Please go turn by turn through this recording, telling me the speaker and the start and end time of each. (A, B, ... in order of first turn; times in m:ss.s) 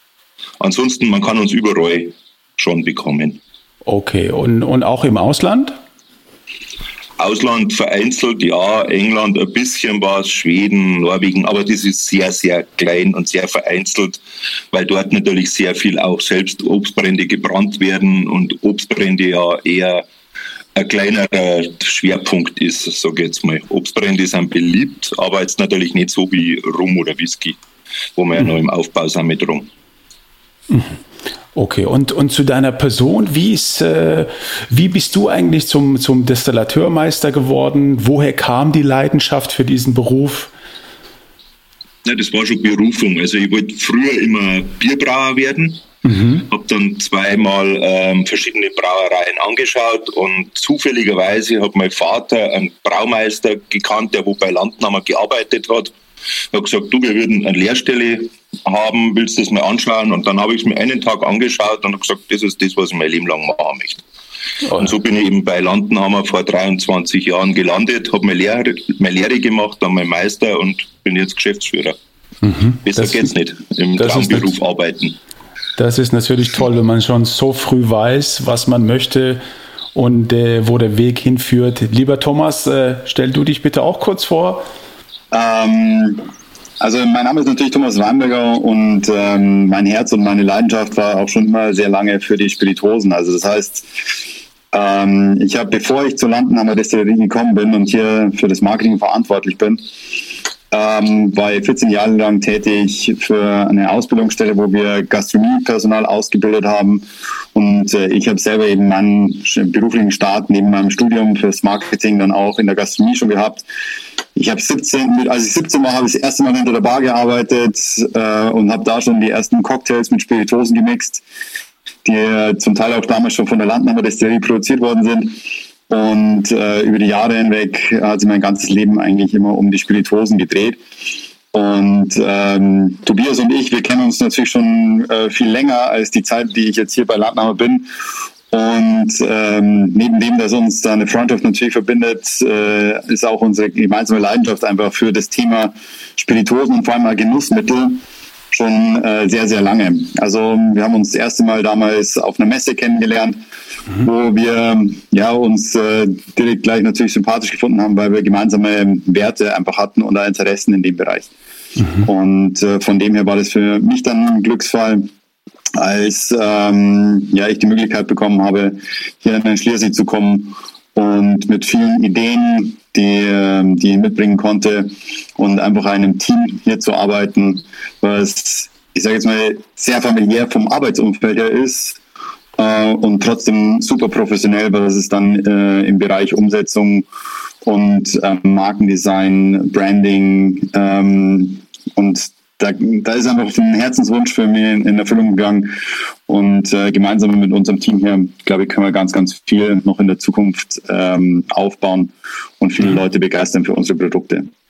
0:00.6-0:03.4 A
0:03.8-0:05.8 B
0:07.2-0:20.0 A
0:20.7-0:27.6 A
0:28.1-0:29.7 A
0:30.7-0:31.0 B
0:31.5-0:40.5 B
0:42.0-0:45.8 A
0:46.0-0:46.4 B
0:46.4-0:55.9 A
0:56.5-1:04.0 A
1:04.7-1:12.0 A
1:12.4-1:13.3 B
1:12.8-1:15.2 A
1:14.0-1:14.5 B
1:15.8-1:19.4 B
1:19.9-1:24.6 B
1:25.3-1:26.2 C
1:26.8-1:40.1 C
1:40.7-1:53.6 C
1:54.3-2:01.2 C
2:02.0-2:10.8 C
2:11.5-2:17.9 C
2:18.5-2:28.0 C
2:28.5-2:33.4 C
2:34.0-2:41.3 C
2:42.0-2:45.1 C
2:45.7-3:02.0 C
3:02.6-3:07.0 C
3:07.6-3:24.5 C